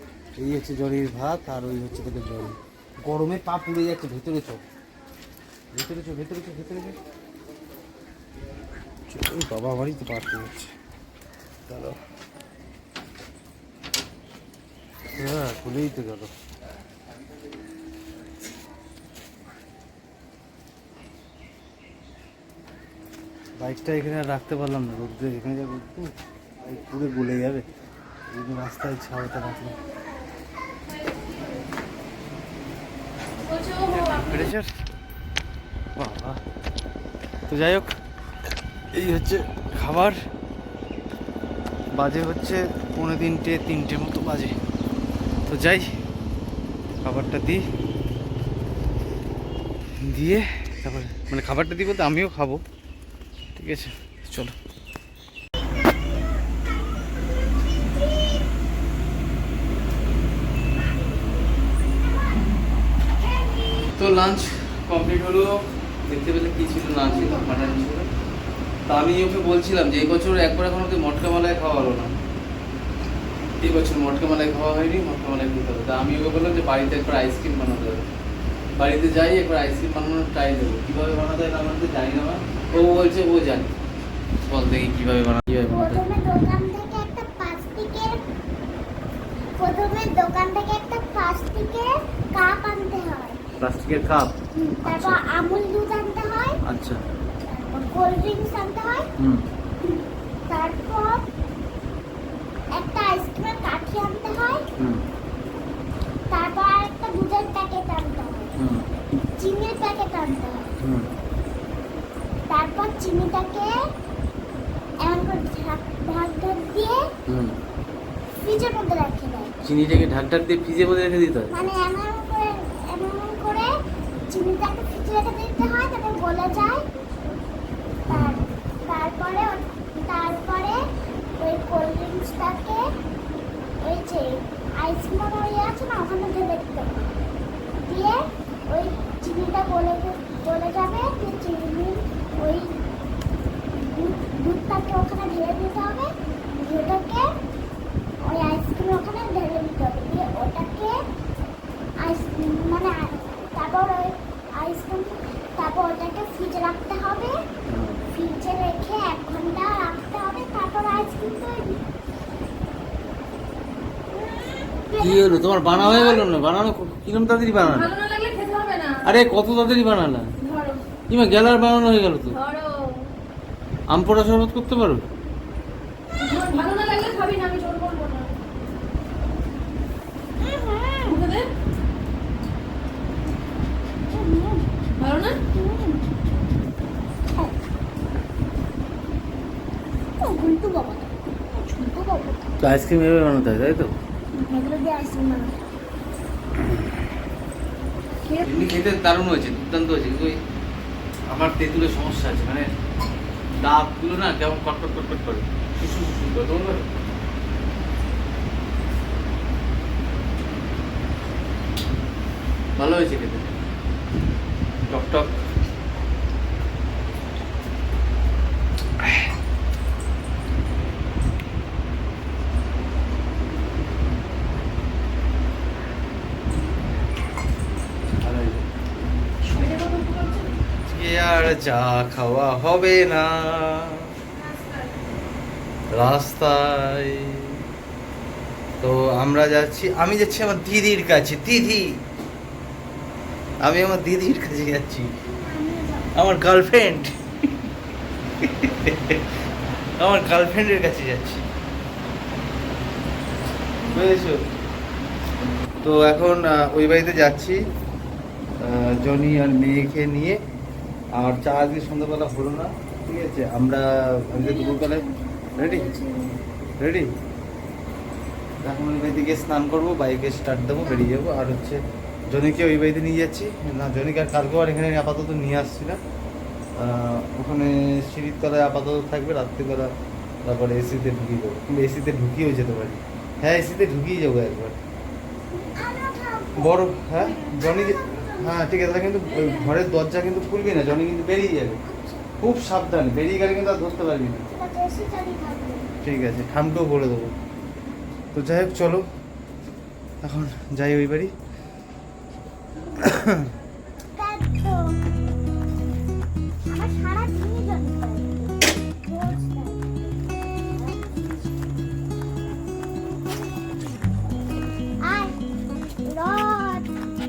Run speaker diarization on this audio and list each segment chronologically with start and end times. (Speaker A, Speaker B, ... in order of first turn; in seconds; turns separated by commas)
Speaker A: 0.4-4.6, Speaker A: 5.7-7.0, Speaker A: 9.1-10.7, Speaker A: 11.7-11.9, Speaker A: 15.1-16.3, Speaker A: 23.6-27.7, Speaker A: 28.3-29.8, Speaker B: 29.6-30.1, Speaker B: 30.8-31.7, Speaker B: 33.4-34.5, Speaker A: 33.9-34.7, Speaker A: 36.0-36.4, Speaker A: 37.5-37.9, Speaker A: 38.9-40.2, Speaker A: 41.9-44.5, Speaker A: 45.5-45.9, Speaker A: 47.0-47.6, Speaker A: 50.1-52.6, Speaker A: 53.5-54.5, Speaker A: 64.0-65.5, Speaker A: 66.1-68.1, Speaker A: 68.9-72.1, Speaker A: 73.6-78.0, Speaker A: 78.8-83.7, Speaker A: 84.5-86.0, Speaker C: 85.7-88.2, Speaker C: 89.6-93.4, Speaker A: 93.6-95.2, Speaker C: 94.5-96.6, Speaker A: 96.7-97.0, Speaker C: 97.5-99.1, Speaker C: 100.5-101.2, Speaker C: 102.7-104.6, Speaker C: 106.3-108.5, Speaker A: 108.6-108.9, Speaker C: 109.4-110.7, Speaker A: 110.8-111.1, Speaker C: 112.5-113.7, Speaker C: 115.0-117.0, Speaker A: 117.3-117.5, Speaker C: 118.4-119.5, Speaker A: 119.6-121.7, Speaker C: 121.5-123.7, Speaker C: 124.3-126.8, Speaker C: 128.1-130.8, Speaker A: 128.1-128.4, Speaker C: 131.4-132.9, Speaker C: 133.8-137.1, Speaker C: 137.8-142.8, Speaker C: 143.8-147.3, Speaker C: 148.3-151.0, Speaker C: 152.0-157.4, Speaker A: 157.7-158.1, Speaker C: 158.1-161.8, Speaker C: 164.1-166.3, Speaker A: 165.0-167.9, Speaker B: 167.6-169.0, Speaker A: 169.0-170.3, Speaker B: 170.4-170.8, Speaker A: 171.1-172.4, Speaker B: 172.3-173.1, Speaker A: 173.9-175.0, Speaker B: 176.2-178.3, Speaker C: 180.4-181.2, Speaker B: 181.0-181.5, Speaker C: 184.1-184.6, Speaker B: 185.0-185.4, Speaker C: 185.6-186.0, Speaker C: 190.2-191.1, Speaker C: 191.6-192.5, Speaker A: 192.6-193.9, Speaker C: 194.6-195.4, Speaker A: 198.4-200.4, Speaker A: 201.3-202.7, Speaker A: 203.6-206.9, Speaker A: 212.8-213.6, Speaker A: 214.9-215.3, Speaker A: 228.1-228.7, Speaker B: 229.4-230.6, Speaker A: 230.8-234.1, Speaker B: 234.3-235.2, Speaker A: 235.9-237.6, Speaker A: 238.8-241.9, Speaker A: 243.6-245.1, Speaker B: 245.4-246.1, Speaker A: 246.2-247.2, Speaker A: 248.4-249.3, Speaker A: 250.0-251.4, Speaker A: 253.8-254.4, Speaker A: 255.8-257.6, Speaker A: 258.6-260.4, Speaker A: 261.2-265.1, Speaker B: 264.4-266.4, Speaker A: 265.6-265.9, Speaker A: 266.8-267.1, Speaker A: 268.6-276.0, Speaker A: 276.8-279.9, Speaker A: 280.4-284.8, Speaker C: 285.5-286.8, Speaker A: 286.6-291.8, Speaker B: 287.2-288.5, Speaker B: 289.3-289.8, Speaker C: 291.9-292.3, Speaker A: 292.4-294.5, Speaker C: 294.5-295.9, Speaker A: 296.0-297.4, Speaker A: 298.3-299.0, Speaker A: 300.2-301.3, Speaker A: 303.0-303.4, Speaker C: 304.1-304.9, Speaker C: 306.7-311.6, Speaker C: 315.0-315.4, Speaker C: 316.0-316.9